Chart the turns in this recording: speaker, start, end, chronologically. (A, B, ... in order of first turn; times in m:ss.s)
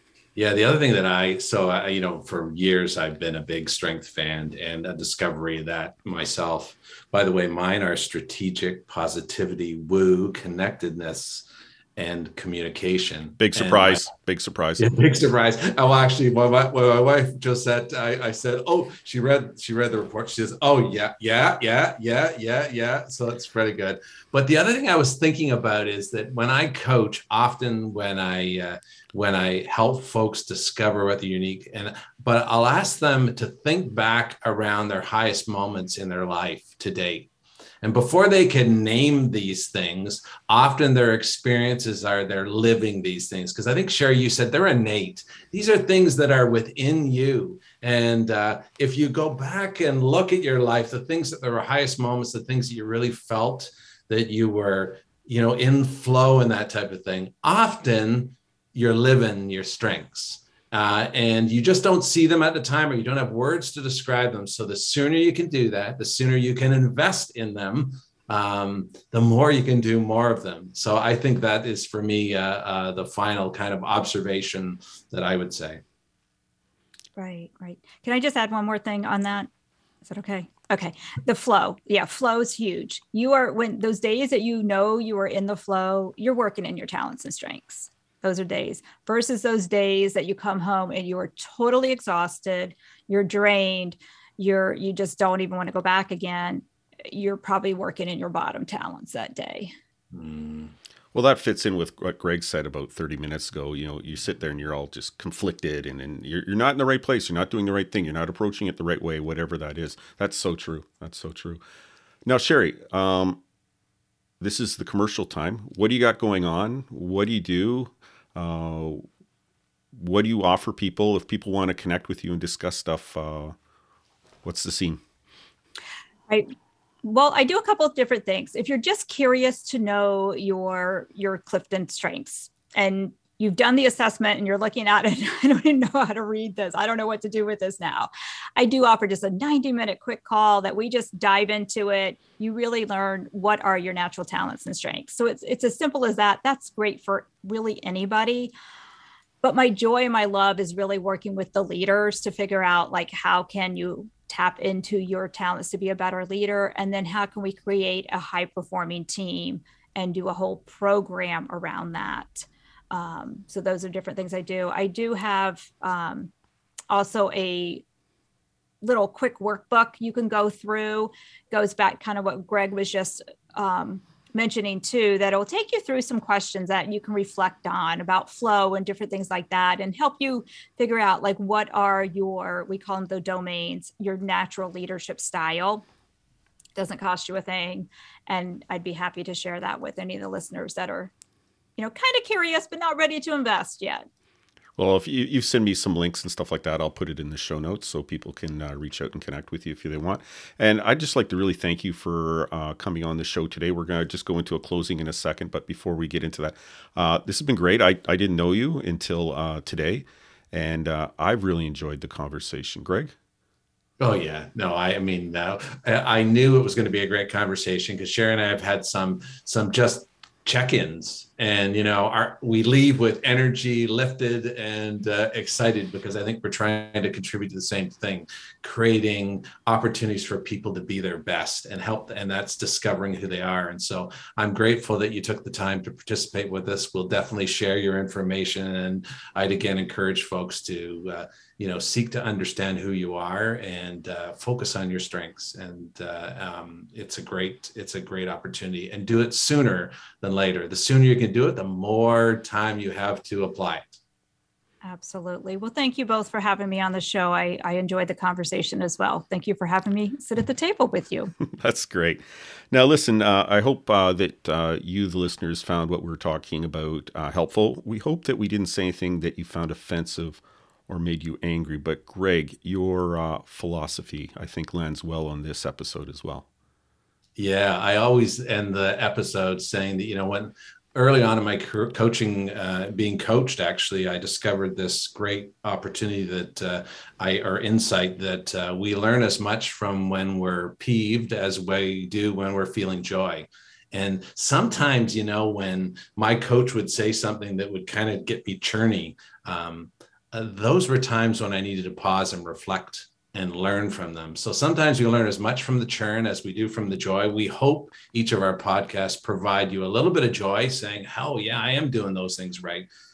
0:00.4-0:14.1 A
0:13.4-0:14.9 B
0:14.8-0:37.3 A
0:37.8-1:15.8 A
1:17.2-1:19.5 C
1:20.0-1:39.7 C
1:40.1-1:40.7 A
1:41.1-1:51.6 B
1:52.2-1:53.4 B
1:54.4-1:59.0 B
1:59.9-2:03.6 B
2:04.4-2:05.0 B
2:07.0-2:28.5 C
2:29.4-2:46.3 C
2:46.9-2:47.8 C
2:48.8-3:05.9 C
3:06.8-3:11.1 C
3:11.8-3:14.1 C
3:14.8-3:33.2 B
3:34.0-4:14.0 A
4:14.8-4:21.3 C
4:21.4-4:36.5 B
4:37.4-5:12.9 A